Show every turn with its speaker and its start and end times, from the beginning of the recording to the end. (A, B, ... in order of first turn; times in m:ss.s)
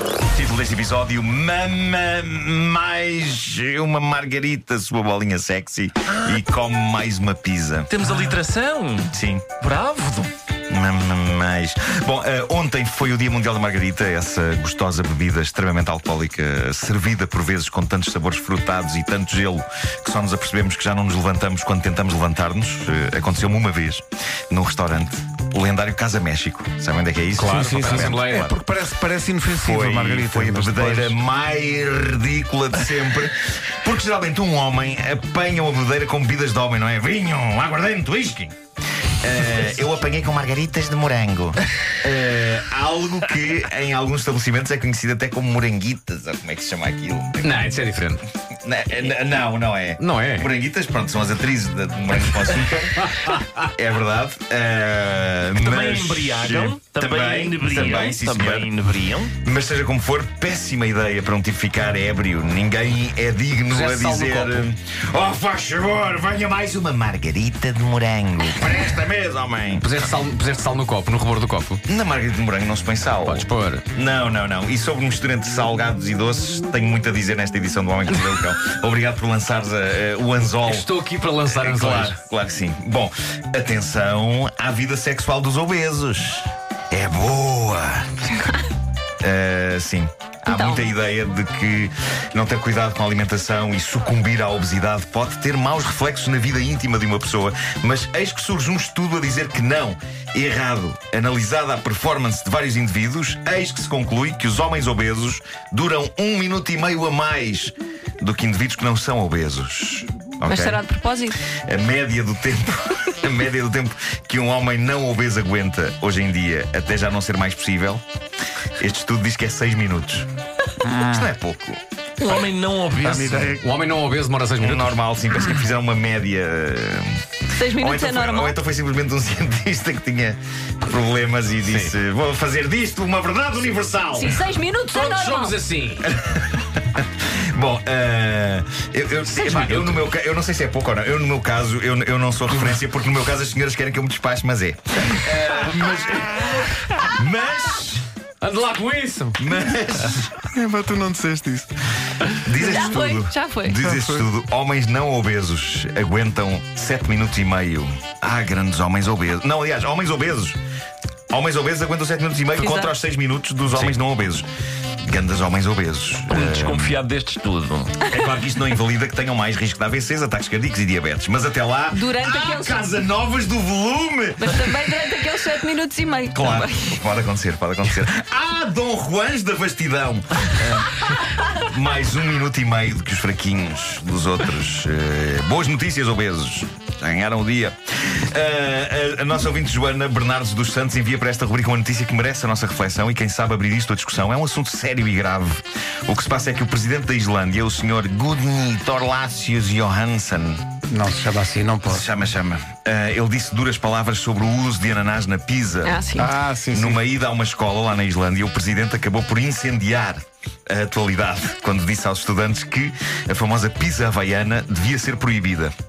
0:00.2-0:07.9 A
0:06.1-0:06.4 B
0:07.9-0:10.3 B
0:09.1-0:09.5 A
0:10.7-0:28.5 A
0:27.4-0:28.5 C
0:27.5-0:31.1 D
0:29.6-0:38.5 A
0:39.2-0:47.7 A
0:47.4-0:48.2 C
0:48.5-0:58.7 A
0:50.0-0:50.5 C
0:55.6-0:59.3 B
0:59.3-1:09.9 A
1:03.7-1:04.6 C
1:09.8-1:11.8 C
1:11.9-1:20.9 A
1:13.2-1:13.8 C
1:20.6-1:22.2 C
1:21.4-1:28.4 A
1:29.2-1:50.8 A
1:30.5-1:30.9 E
1:50.4-1:51.4 E
1:51.5-1:58.0 A
1:58.8-2:00.3 A
2:00.8-2:01.2 D
2:01.0-2:02.4 A
2:02.2-2:03.6 B
2:03.0-2:03.6 D
2:03.6-2:04.9 C
2:04.6-2:07.2 A
2:07.6-2:08.6 E
2:07.7-2:14.4 A
2:11.6-2:11.9 C
2:14.1-2:15.6 E
2:14.9-2:16.1 C
2:16.0-2:28.0 A
2:19.3-2:20.1 C
2:25.2-2:25.9 C
2:28.4-2:29.4 C
2:29.4-2:30.3 A
2:30.4-2:31.7 D
2:32.4-2:40.6 A
2:32.6-2:33.8 E
2:41.3-2:44.5 A
2:42.6-2:42.9 E
2:45.0-2:47.0 A
2:46.3-2:48.2 B
2:48.0-2:54.7 A
2:51.9-2:52.8 E
2:54.4-2:57.0 E
2:56.3-3:20.7 A
3:20.9-3:22.0 D
3:21.8-3:26.0 A
3:25.8-3:26.3 E
3:26.2-3:27.0 D
3:26.7-3:35.7 A